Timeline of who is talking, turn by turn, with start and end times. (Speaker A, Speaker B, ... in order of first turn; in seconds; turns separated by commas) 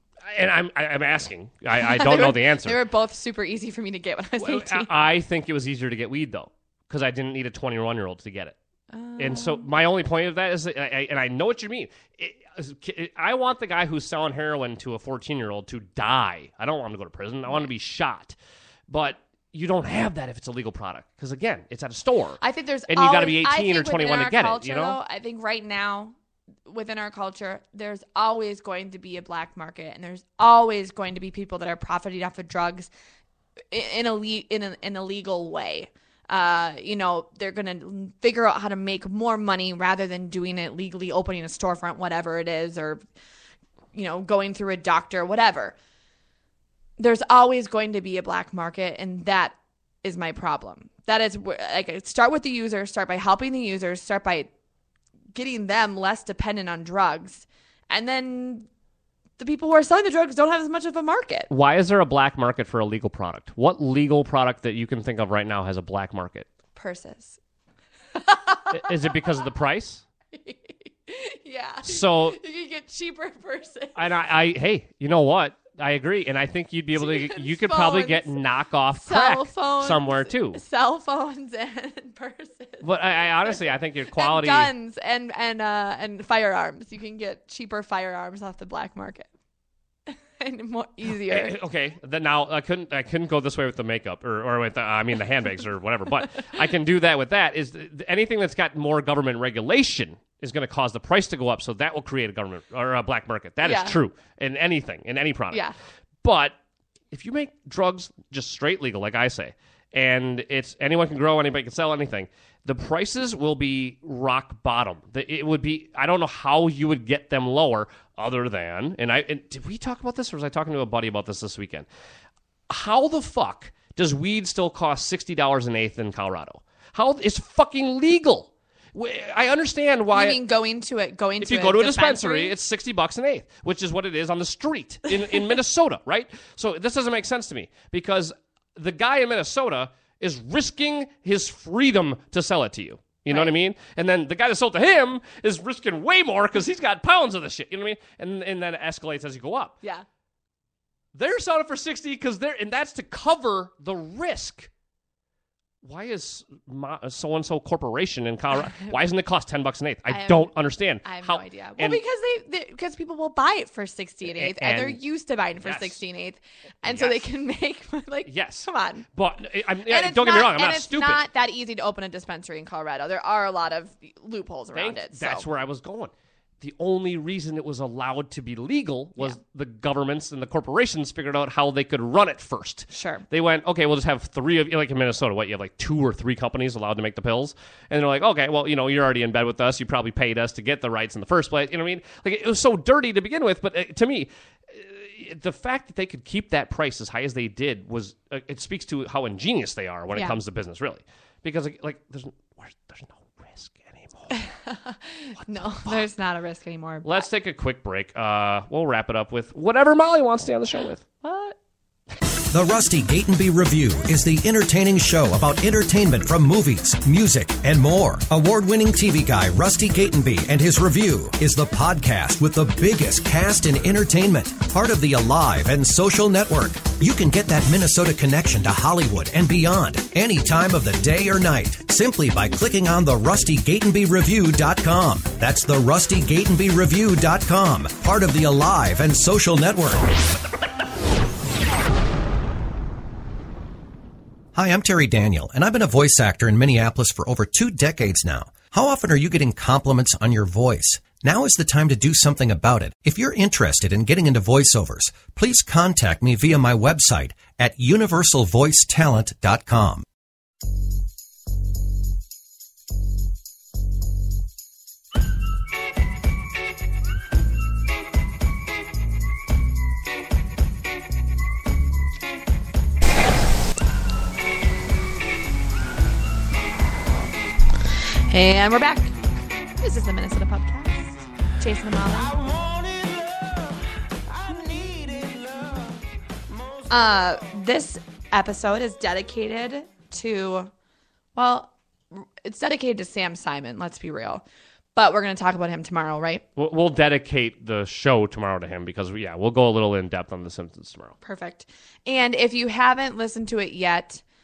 Speaker A: 0.2-2.8, Speaker B: 1.8-4.9, Speaker A: 4.4-8.6, Speaker B: 8.9-9.7, Speaker A: 9.2-18.4, Speaker A: 18.9-25.0, Speaker B: 22.4-26.1, Speaker B: 26.7-32.9, Speaker B: 33.7-43.0, Speaker B: 43.9-45.7, Speaker B: 47.0-54.5, Speaker B: 55.3-58.7, Speaker B: 59.4-61.5, Speaker A: 61.5-66.5, Speaker B: 66.7-67.4, Speaker B: 68.1-69.1, Speaker A: 68.7-70.0, Speaker B: 70.3-74.0, Speaker A: 71.8-72.4, Speaker A: 73.9-80.6, Speaker B: 77.0-78.4, Speaker B: 78.9-82.9, Speaker A: 82.8-84.7, Speaker B: 83.4-89.3, Speaker B: 90.1-91.5, Speaker A: 91.1-105.7, Speaker B: 103.6-104.0, Speaker A: 106.2-106.5, Speaker A: 107.1-121.9, Speaker A: 122.7-130.4, Speaker B: 130.1-132.5, Speaker A: 131.4-149.7, Speaker A: 151.1-154.7, Speaker A: 155.8-162.0, Speaker B: 160.1-169.1, Speaker A: 164.2-165.0, Speaker A: 165.6-166.0, Speaker A: 166.8-167.2, Speaker A: 168.2-171.2, Speaker B: 169.8-175.4, Speaker A: 174.7-204.4, Speaker B: 182.9-183.2, Speaker B: 204.3-207.2, Speaker A: 205.3-206.0, Speaker A: 207.0-211.1, Speaker B: 211.2-211.6, Speaker C: 212.5-240.2, Speaker C: 244.5-260.0, Speaker B: 278.3-279.1, Speaker B: 279.8-282.4, Speaker B: 286.9-290.7, Speaker B: 291.3-294.4, Speaker B: 294.9-296.4, Speaker A: 296.6-301.1, Speaker B: 301.2-304.2